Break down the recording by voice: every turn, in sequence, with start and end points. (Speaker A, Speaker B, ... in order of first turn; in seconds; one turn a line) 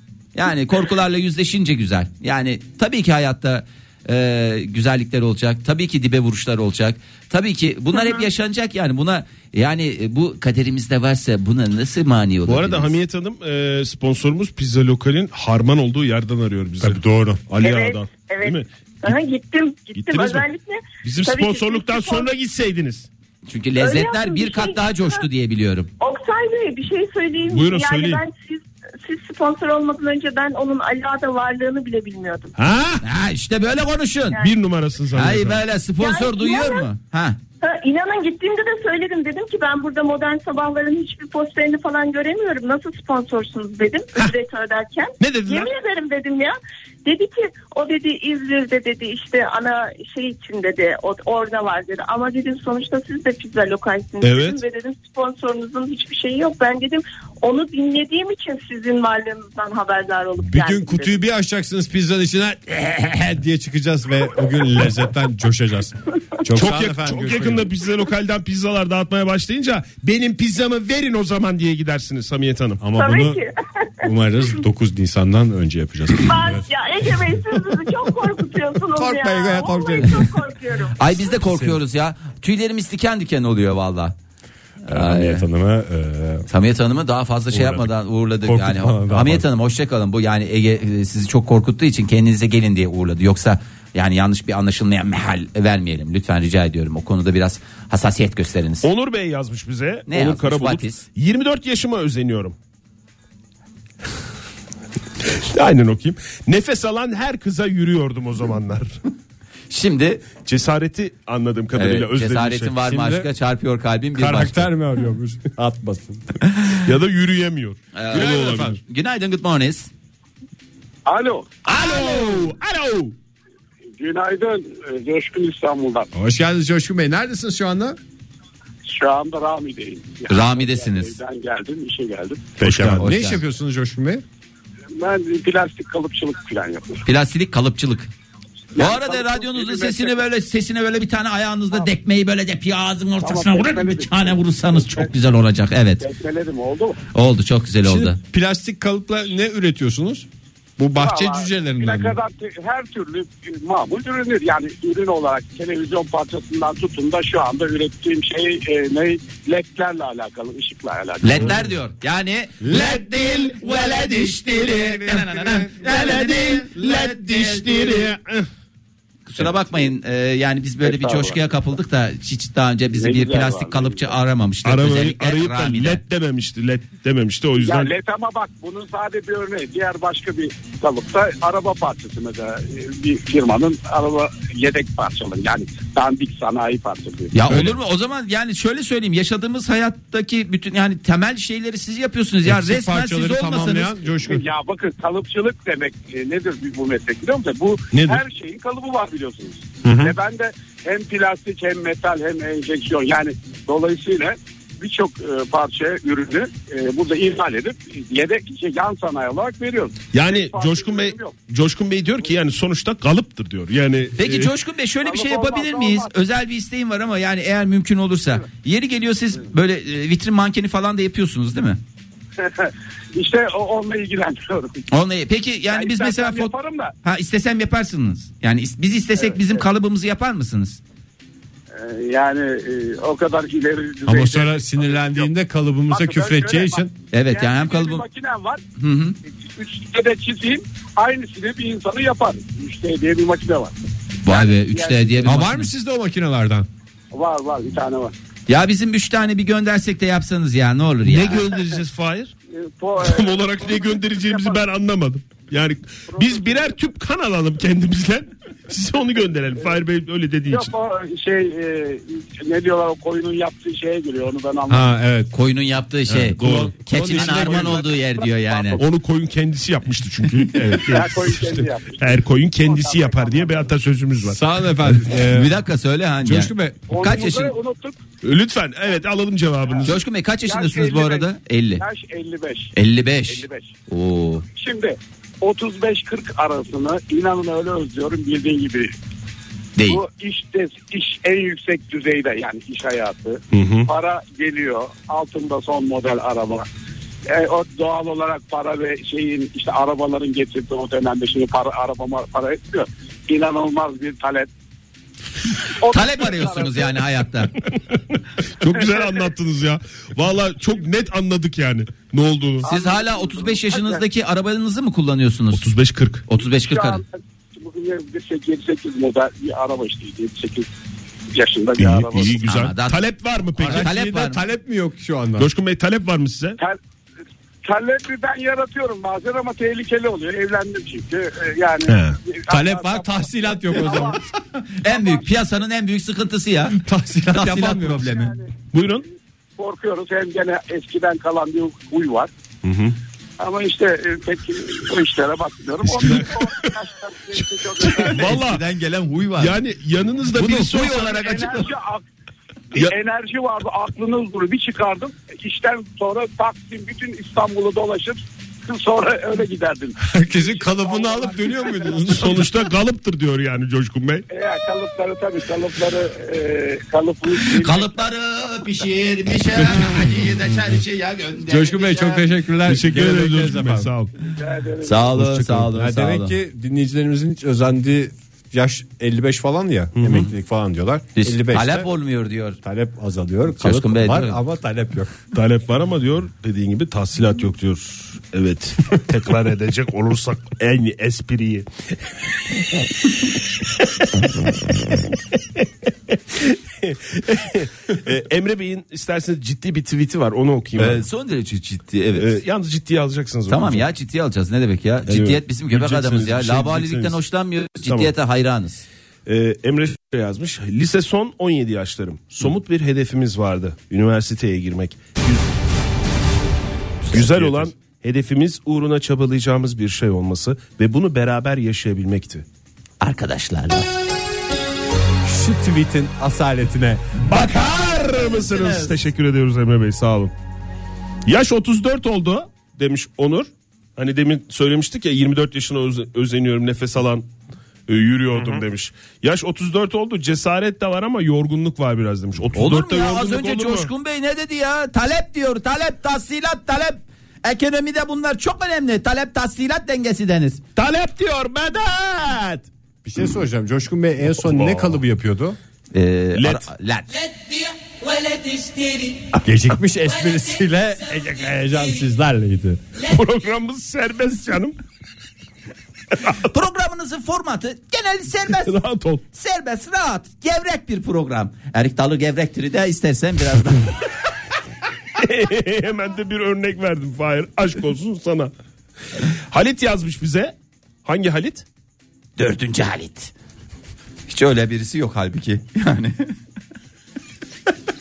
Speaker A: 0.3-13.0
Speaker B: 7.9-8.3
Speaker C: 12.4-19.1
Speaker D: 16.8-17.4
Speaker B: 17.6-22.3
Speaker C: 19.9-20.5
Speaker C: 21.0-23.1
Speaker A: 23.5-25.9
Speaker B: 23.8-25.2
Speaker B: 26.0-32.5
Speaker C: 27.5-28.2
Speaker C: 32.6-33.0
Speaker A: 33.0-34.5
Speaker C: 34.4-35.6
Speaker A: 35.1-37.4
Speaker B: 36.0-36.9
Speaker B: 37.6-61.2
Speaker C: 45.2-45.7
Speaker C: 54.2-54.6
Speaker D: 60.4-67.7
Speaker C: 66.5-72.8
Speaker D: 72.8-73.4
Speaker B: 72.9-74.1
Speaker D: 74.0-76.7
Speaker B: 76.2-81.2
Speaker D: 78.9-80.3
Speaker A: 81.0-84.2
Speaker D: 81.5-81.8
Speaker A: 84.9-85.5
Speaker D: 84.9-86.5
Speaker A: 86.5-98.9
Speaker D: 87.5-89.5
Speaker C: 98.8-102.6
Speaker A: 100.1-101.0
Speaker C: 105.2-109.0
Speaker A: 109.7-110.2
Speaker C: 110.4-112.8
Speaker A: 111.7-114.7
Speaker D: 112.8-113.3
Speaker D: 114.2-116.4
Speaker C: 116.8-118.8
Speaker A: 117.9-119.9
Speaker D: 118.2-118.8
Speaker E: 121.1-121.6
Speaker C: 121.6-123.1
Speaker A: 121.8-122.3
Speaker E: 124.0-126.1
Speaker D: 126.1-128.0
Speaker E: 128.8-132.6
Speaker A: 130.3-131.2
Speaker D: 132.6-134.2
Speaker C: 132.6-133.0
Speaker A: 132.7-133.4
Speaker E: 134.9-137.0
Speaker A: 137.1-138.1
Speaker E: 138.8-140.2
Speaker A: 138.8-146.1
Speaker E: 143.2-145.1
Speaker E: 146.0-147.0
Speaker A: 147.1-148.2
Speaker D: 147.8-150.3
Speaker D: 150.8-152.2
Speaker E: 150.9-161.6
Speaker A: 161.2-168.1
Speaker D: 165.1-165.5
Speaker C: 165.6-168.5
Speaker A: 169.3-176.0
Speaker E: 170.8-171.4
Speaker E: 172.9-174.1
Speaker C: 174.7-177.9
Speaker E: 177.6-187.3
Speaker A: 187.3-193.9
Speaker D: 192.4-194.4
Speaker E: 194.2-211.4
Speaker C: 197.9-198.2
Speaker D: 199.8-200.1
Speaker C: 210.1-214.5
Speaker A: 214.2-221.8
Speaker E: 215.0-216.1
Speaker E: 222.4-224.8
Speaker A: 224.9-230.8
Speaker E: 225.7-226.9
Speaker E: 229.2-229.6
Speaker E: 231.7-235.3
Speaker D: 234.1-236.9
Speaker E: 235.9-238.6
Speaker A: 237.1-238.1
Speaker A: 238.8-239.2
Speaker E: 239.4-243.7
Speaker A: 244.2-245.7
Speaker E: 244.3-245.3
Speaker D: 245.2-246.7
Speaker E: 247.1-248.1
Speaker A: 248.5-251.5
Speaker C: 251.1-252.3
Speaker E: 252.5-254.6
Speaker C: 253.0-260.7
Speaker E: 256.1-256.8
Speaker E: 259.6-259.8
Speaker E: 260.5-264.9
Speaker D: 264.7-265.3
Speaker A: 265.3-268.8
Speaker D: 266.1-267.9
Speaker C: 266.3-267.6
Speaker E: 267.4-268.8
Speaker C: 268.8-274.4
Speaker E: 270.8-273.8
Speaker D: 274.2-275.6
Speaker A: 275.3-277.5
Speaker D: 276.2-276.9
Speaker E: 276.9-278.0
Speaker C: 278.2-280.0
Speaker A: 279.8-281.8
Speaker E: 280.4-282.7
Speaker A: 282.7-284.4
Speaker E: 283.3-283.7
Speaker E: 284.5-288.9
Speaker E: 289.9-296.7
Speaker C: 293.5-293.9
Speaker E: 297.3-304.5
Speaker E: 305.8-306.9
Speaker A: 305.9-307.5
Speaker C: 308.6-312.7
Speaker E: 308.7-309.2
Speaker E: 312.6-314.0
Speaker A: 312.6-315.7
Speaker C: 315.5-316.3
Speaker A: 316.3-317.0
Speaker E: 316.4-320.7
Speaker E: 321.3-322.4
Speaker C: 321.8-323.9
Speaker A: 322.4-323.0
Speaker D: 323.6-325.5
Speaker A: 323.6-324.4
Speaker C: 325.4-326.6
Speaker E: 327.6-334.2
Speaker C: 331.9-332.2
Speaker D: 332.5-334.2
Speaker A: 334.8-336.8
Speaker E: 334.9-335.3
Speaker D: 336.8-338.2
Speaker A: 337.3-338.3
Speaker E: 338.1-338.5
Speaker C: 338.7-339.0
Speaker E: 339.6-342.3
Speaker C: 342.6-342.9
Speaker E: 343.4-348.3
Speaker C: 345.9-346.7
Speaker C: 347.8-348.6
Speaker A: 348.1-349.6
Speaker C: 349.4-351.6
Speaker A: 350.4-351.6
Speaker E: 350.8-352.1
Speaker E: 352.7-362.1
Speaker D: 360.0-362.5
Speaker C: 362.1-364.2
Speaker E: 364.3-367.9
Speaker A: 367.6-372.2
Speaker D: 371.5-373.9
Speaker C: 372.6-374.1
Speaker E: 374.2-375.1
Speaker A: 374.8-376.4
Speaker D: 375.2-381.9
Speaker C: 380.0-380.3
Speaker A: 381.2-382.6
Speaker D: 382.6-385.2
Speaker A: 383.6-384.4
Speaker C: 385.3-391.7
Speaker C: 396.1-401.0
Speaker A: 400.8-402.4
Speaker C: 402.2-403.9
Speaker A: 403.5-408.9
Speaker C: 405.1-407.2
Speaker C: 407.8-408.1
Speaker C: 409.3-415.4
Speaker A: 417.1-417.7
Speaker C: 417.1-422.4
Speaker A: 423.0-423.9
Speaker D: 425.2-427.0
Speaker C: 427.2-430.3
Speaker A: 428.4-428.9
Speaker C: 431.3-437.3
Speaker C: 437.9-443.9
Speaker A: 442.5-450.6
Speaker C: 450.8-452.7
Speaker D: 453.0-455.6
Speaker C: 454.4-455.0
Speaker A: 455.9-459.2
Speaker C: 456.4-456.7
Speaker D: 459.4-462.8
Speaker C: 463.1-464.8
Speaker A: 466.4-468.8
Speaker C: 468.6-469.2
Speaker A: 469.3-473.9
Speaker C: 475.2-478.5
Speaker C: 479.5-481.6
Speaker A: 482.4-483.3
Speaker A: 484.3-486.3